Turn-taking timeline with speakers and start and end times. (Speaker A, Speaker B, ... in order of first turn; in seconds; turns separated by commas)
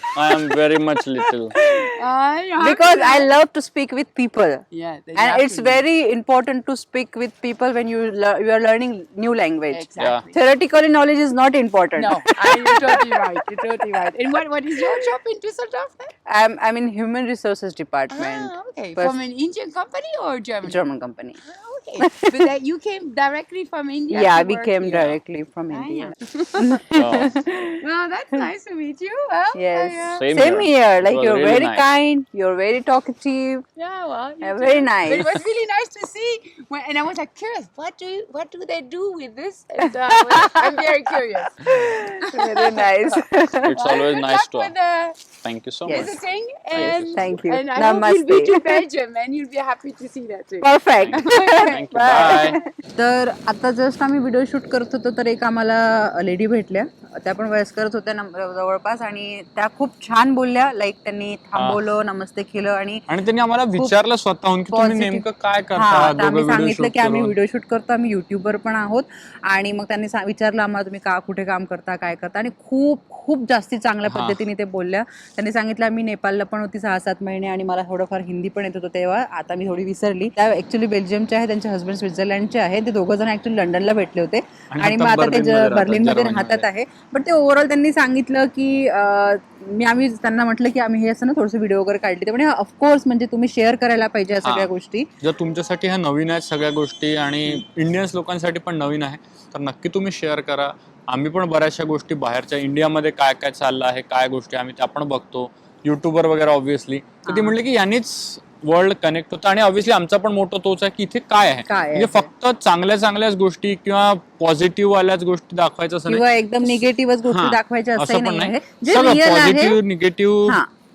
Speaker A: 0.1-1.6, Speaker B: 1.5-1.9, Speaker C: 1.9-3.3, Speaker B: 2.6-4.6, Speaker C: 4.7-5.8, Speaker B: 5.2-14.1, Speaker C: 9.7-10.4, Speaker A: 10.0-10.3, Speaker C: 12.0-16.1, Speaker B: 16.3-19.2, Speaker C: 18.1-20.8, Speaker B: 20.6-21.4, Speaker C: 21.4-25.2, Speaker B: 22.0-22.4, Speaker B: 24.1-27.8, Speaker C: 25.7-26.9, Speaker A: 26.9-27.3, Speaker C: 27.8-30.3, Speaker B: 29.6-33.7, Speaker A: 30.1-31.8, Speaker C: 33.8-43.2, Speaker B: 34.4-35.4, Speaker B: 40.3-40.6, Speaker B: 41.6-43.8, Speaker A: 43.6-44.7, Speaker C: 43.8-45.2, Speaker A: 45.4-46.2, Speaker B: 45.9-46.1, Speaker C: 45.9-52.6, Speaker A: 46.7-47.4, Speaker B: 46.8-48.8, Speaker B: 50.6-63.0, Speaker A: 51.0-52.6, Speaker A: 61.5-61.8, Speaker A: 63.1-67.3, Speaker B: 64.7-95.1, Speaker A: 74.1-74.4, Speaker A: 84.7-86.7, Speaker A: 94.4-120.6, Speaker B: 107.3-107.6, Speaker B: 111.7-112.3, Speaker B: 116.1-119.8